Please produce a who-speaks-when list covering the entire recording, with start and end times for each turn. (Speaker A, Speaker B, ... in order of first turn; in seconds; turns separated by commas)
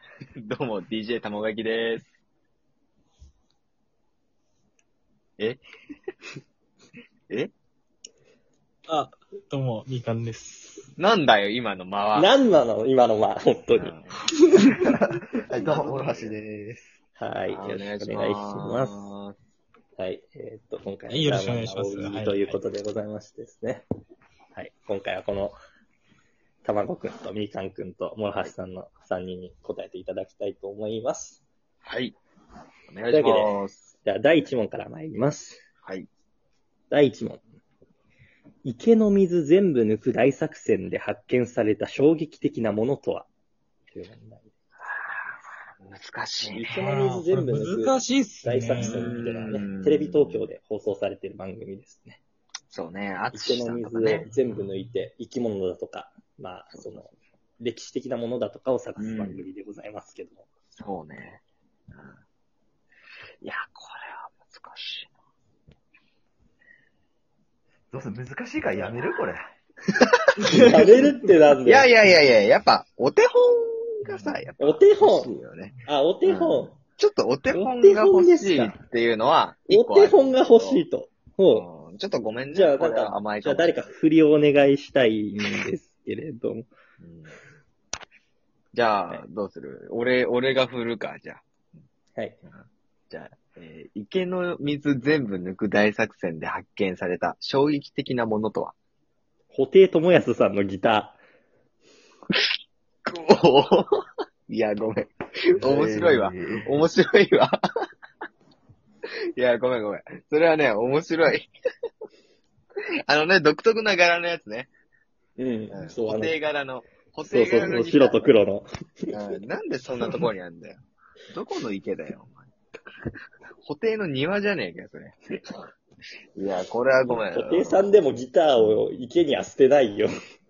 Speaker A: 0.4-2.1, Speaker B: 8.9-10.9, Speaker A: 11.0-12.3, Speaker C: 12.2-13.9, Speaker A: 13.7-14.2, Speaker D: 14.6-16.9, Speaker A: 15.6-16.4, Speaker C: 17.2-19.1, Speaker A: 17.5-19.4, Speaker C: 20.0-23.9, Speaker B: 21.1-22.6, Speaker C: 24.6-25.6, Speaker C: 26.6-31.4, Speaker A: 31.9-32.2, Speaker A: 32.9-33.9, Speaker C: 33.1-35.6, Speaker C: 36.9-37.4, Speaker C: 38.6-43.3, Speaker C: 43.9-44.5, Speaker A: 44.8-46.6, Speaker C: 46.5-52.2, Speaker B: 46.6-49.3, Speaker A: 48.8-50.5, Speaker A: 52.7-54.3, Speaker C: 53.3-60.5, Speaker A: 59.0-59.4, Speaker A: 60.7-61.4, Speaker A: 63.4-65.1, Speaker D: 67.9-69.5, Speaker A: 70.0-71.0, Speaker B: 70.4-70.9, Speaker C: 70.6-71.9, Speaker A: 71.6-80.9, Speaker C: 74.6-75.3, Speaker C: 75.9-76.8, Speaker C: 77.5-78.8, Speaker C: 79.7-81.7, Speaker A: 81.5-83.8, Speaker C: 82.5-86.7, Speaker A: 87.0-87.3, Speaker A: 88.7-91.4, Speaker A: 93.1-98.7, Speaker C: 99.5-101.2, Speaker A: 103.1-103.9, Speaker A: 104.5-107.6, Speaker D: 105.6-106.7, Speaker A: 109.4-111.5, Speaker A: 113.1-114.7, Speaker C: 115.4-116.4, Speaker A: 115.7-118.3, Speaker C: 117.3-119.1, Speaker A: 119.1-120.8, Speaker A: 121.3-122.5, Speaker A: 123.6-125.4, Speaker A: 126.4-128.0, Speaker C: 127.1-130.1